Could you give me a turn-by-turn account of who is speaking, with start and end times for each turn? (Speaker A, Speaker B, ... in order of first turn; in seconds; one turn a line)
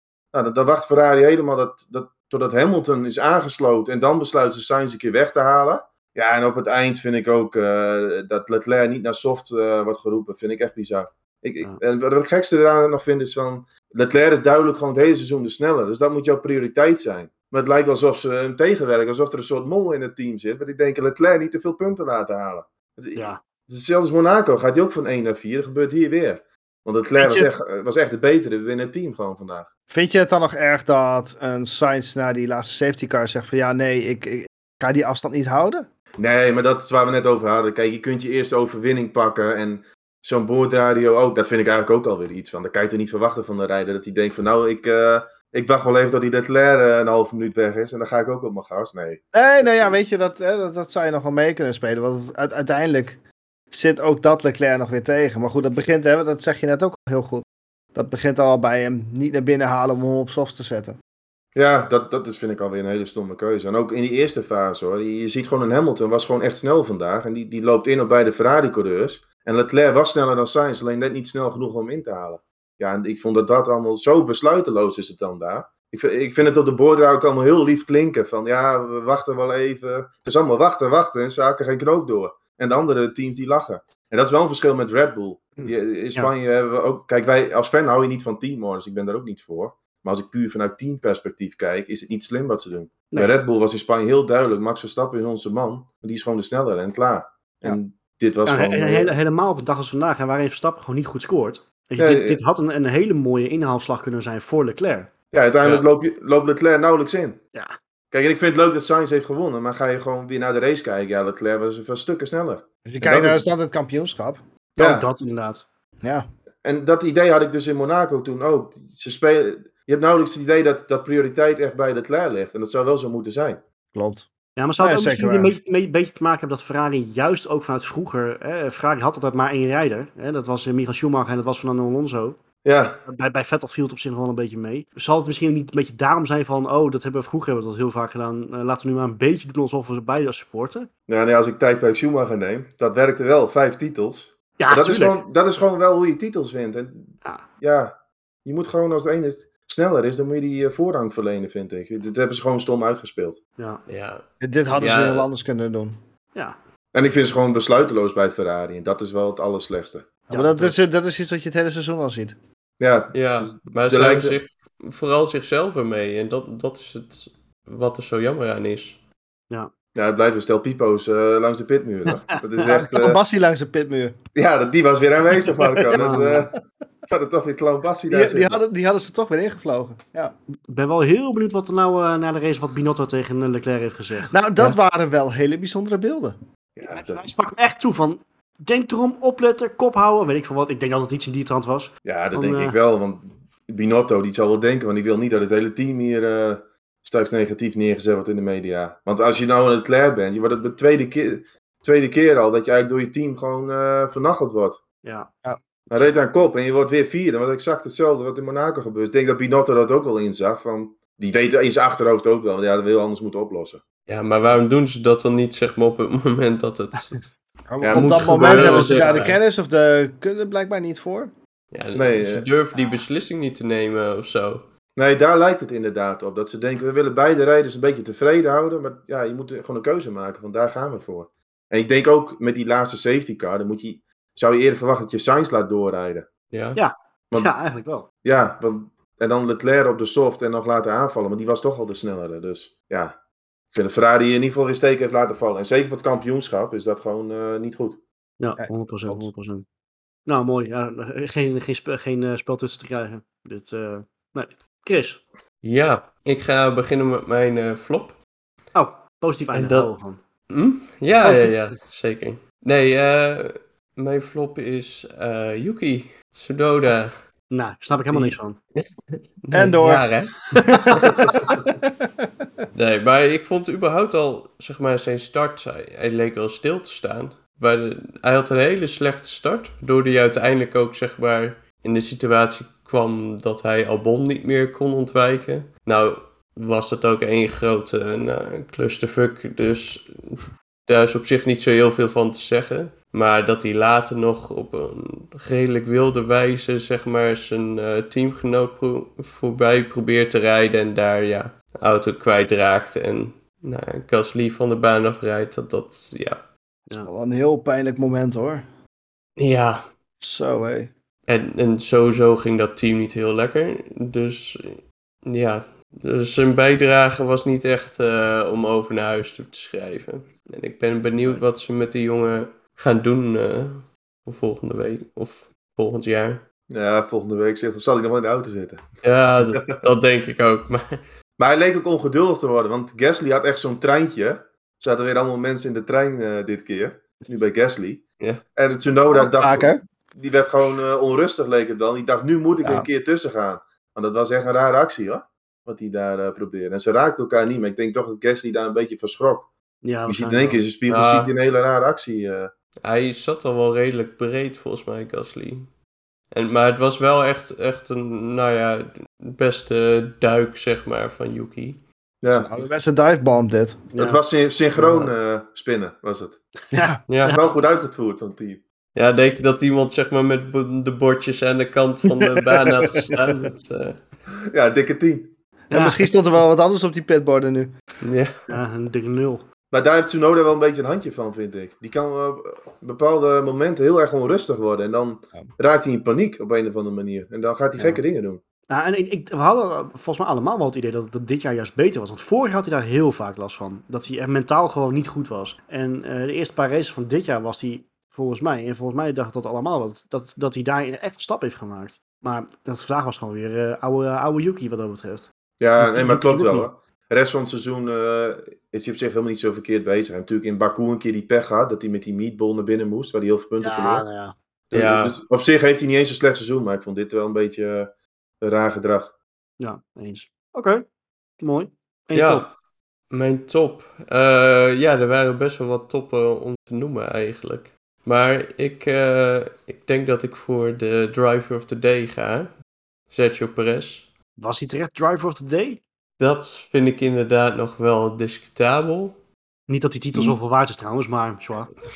Speaker A: 0.3-29.7
Speaker B: 23.1-23.4
Speaker C: 27.2-27.5
Speaker C: 29.9-35.9
Speaker A: 36.2-49.9
Speaker C: 49.3-53.2
Speaker C: 53.7-61.0
Speaker A: 61.5-99.2
Speaker B: 85.6-86.3
Speaker B: 98.5-105.1
Speaker A: 102.0-102.4
Speaker A: 105.3-107.4
Speaker A: 108.1-113.5
Speaker C: 112.9-114.4
Speaker B: 114.8-115.6
Speaker A: 114.8-115.1
Speaker A: 116.6-123.6
Speaker C: 123.9-124.3
Speaker B: 124.6-132.4
Speaker C: 124.8-125.5
Speaker A: 132.6-133.0
Speaker B: 133.0-140.9
Speaker A: 141.1-153.4
Speaker B: 144.6-145.2
Speaker D: 153.9-154.2
Speaker C: 154.4-156.0
Speaker D: 154.7-155.3
Speaker A: 156.9-160.1
Speaker B: 160.3-160.8
Speaker C: 160.3-162.4
Speaker A: 162.8-164.4
Speaker D: 163.1-169.0
Speaker A: 169.9-173.2
Speaker C: 172.6-174.2
Speaker A: 174.3-176.5
Speaker C: 175.8-176.5
Speaker B: 175.9-176.3
Speaker A: 177.1-178.6
Speaker C: 178.1-180.3
Speaker B: 180.5-184.8
Speaker C: 184.3-186.4
Speaker A: 186.8-187.3
Speaker B: 186.9-192.8
Speaker A: 192.0-204.8
Speaker B: 205.0-205.3
Speaker A: 205.9-213.8
Speaker D: 214.1-217.2
Speaker C: 217.7-221.3
Speaker A: 217.8-219.2
Speaker D: 217.9-219.4
Speaker D: 221.7-224.7
Speaker A: 221.9-222.4
Speaker A: 224.9-236.3
Speaker D: 236.5-236.8
Speaker B: 236.8-238.1
Speaker A: 237.3-237.6
Speaker A: 238.2-243.2
Speaker A: 243.7-248.0
Speaker B: 248.4-249.6
Speaker C: 248.6-249.3
Speaker B: 250.2-255.2
Speaker D: 255.6-258.2
Speaker B: 258.7-260.2
Speaker D: 259.5-259.9
Speaker D: 260.5-267.2
Speaker B: 261.2-261.5
Speaker B: 267.5-268.6
Speaker D: 268.1-268.8
Speaker D: 269.4-271.5
Speaker C: 269.5-272.6
Speaker D: 272.7-306.4
Speaker C: 307.0-308.6
Speaker D: 309.4-309.9
Speaker C: 310.2-310.9
Speaker D: 311.3-326.4
Speaker A: 326.7-328.9
Speaker D: 329.0-331.0
Speaker A: 329.5-329.8
Speaker A: 331.4-338.0
Speaker A: 338.6-349.5
Speaker C: 339.1-339.8
Speaker C: 342.6-342.9
Speaker B: 349.8-350.6
Speaker A: 350.1-352.5
Speaker D: 350.9-351.3
Speaker D: 352.8-355.7
Speaker D: 356.3-361.8
Speaker A: 362.2-362.5
Speaker C: 362.3-363.9
Speaker B: 363.9-364.2
Speaker A: 364.0-366.4
Speaker B: 364.8-365.1
Speaker B: 366.6-367.0
Speaker C: 366.7-367.0
Speaker D: 367.1-367.4
Speaker A: 367.2-368.6
Speaker D: 368.9-374.0
Speaker C: 372.2-373.2
Speaker A: 374.5-375.3
Speaker C: 375.7-377.7
Speaker B: 375.7-376.0
Speaker D: 378.0-378.4
Speaker B: 378.5-379.4
Speaker A: 379.7-388.4
Speaker B: 388.7-406.7
Speaker A: 405.6-414.0
Speaker B: 413.6-414.4
Speaker A: 414.7-419.1
Speaker D: 414.7-415.2
Speaker B: 419.6-420.8
Speaker B: 421.4-422.4
Speaker D: 422.1-422.5
Speaker D: 423.1-434.1
Speaker B: 434.4-435.8
Speaker D: 436.2-439.2
Speaker B: 439.7-441.7